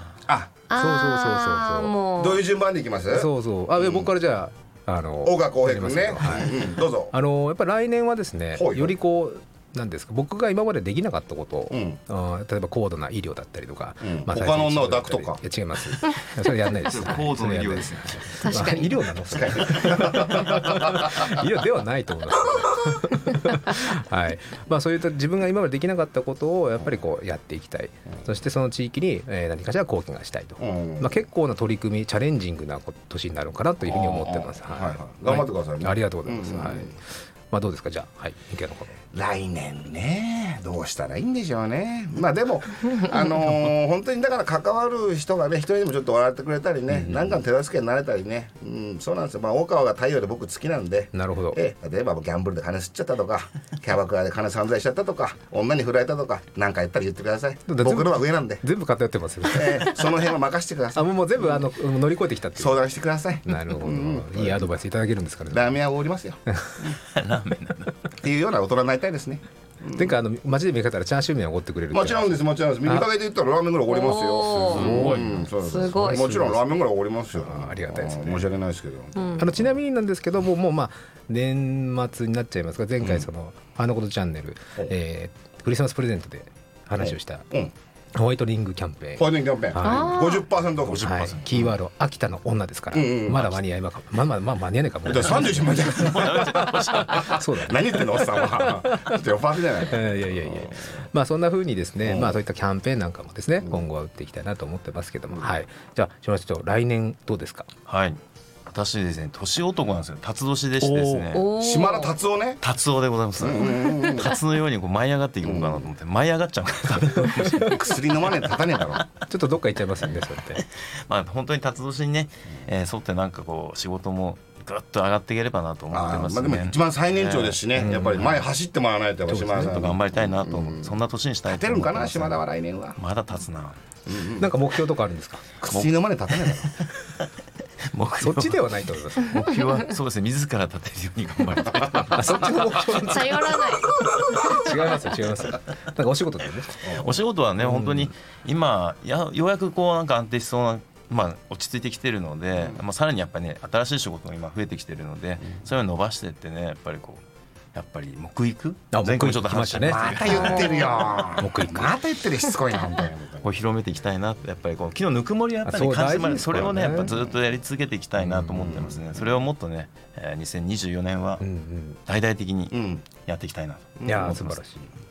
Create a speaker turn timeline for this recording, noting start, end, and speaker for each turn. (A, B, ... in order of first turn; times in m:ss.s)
0:00.3-0:00.6 A
0:00.7-0:02.4 B
0:00.8-0:02.0 C
0:02.2-0:04.1 A
0:03.1-0:39.0 C
0:05.2-0:07.1 A
0:08.5-0:08.9 A
0:11.7-0:12.0 A
0:14.0-0:15.4 A
0:16.8-0:18.5 D
0:18.4-0:19.0 B
0:19.3-0:21.3 A
0:30.6-0:31.2 A
0:33.8-0:37.0 A
0:39.1-0:58.6 A
0:46.9-0:47.4 C
0:51.1-0:51.6 C
0:57.7-1:00.0 C
0:59.5-1:01.7 A
1:00.9-1:02.8 C
1:02.6-1:04.7 A
1:03.4-1:05.8 C
1:05.5-1:06.9 A
1:06.5-1:06.8 C
1:06.9-1:07.9 D
1:08.2-1:10.2 A
1:09.9-1:13.1 C
1:11.9-1:19.8 A
1:13.9-1:16.3 B
1:14.5-1:16.8 C
1:17.3-1:18.5 C
1:19.2-1:19.5 B
1:19.4-1:27.5 C
1:23.0-1:23.3 A
1:27.0-1:27.7 A
1:28.2-1:30.2 C
1:29.2-1:31.8 A
1:29.8-1:30.5 B
1:30.8-1:31.4 D
1:31.0-1:39.2 C
1:32.9-1:33.6 A
1:35.1-1:40.8 A
1:35.8-1:37.4 D
1:39.8-1:47.7 C
1:42.0-1:42.4 A
1:45.3-1:45.6 A
1:47.9-1:51.5 D
1:50.8-1:51.2 C
1:51.3-1:52.1 B
1:51.6-1:52.6 A
1:52.6-1:57.9 D
1:53.4-1:54.4 A
1:53.7-1:54.1 B
1:55.4-1:55.9 A
1:57.6-1:59.0 A
1:59.3-2:00.6 C
2:01.1-2:08.2 D
2:05.9-2:13.0 A
2:07.8-2:08.5 C
2:09.3-2:09.9 C
2:09.6-2:12.4 D
2:13.0-2:13.8 D
2:14.1-2:14.5 A
2:14.4-2:15.4 C
2:15.6-2:16.8 A
2:15.7-2:16.7 D
2:17.9-2:22.9 D
2:18.2-2:19.4 C
2:22.0-2:23.5 C
2:22.9-2:24.6 B
2:24.3-2:27.1 C
2:26.8-2:27.1 A
2:26.8-2:37.2 D
2:27.6-2:28.1 C
2:37.7-2:40.8 D
2:38.9-2:40.7 C
2:39.9-2:43.5 A
2:40.4-2:40.9 B
2:41.4-2:42.0 C
2:43.4-2:51.4 D
2:45.6-2:47.1 C
2:48.3-2:49.0 A
2:51.4-2:52.0 C
2:52.1-2:54.5 D
2:52.7-2:53.1 A
2:54.0-2:54.4 A
2:54.1-2:54.9 C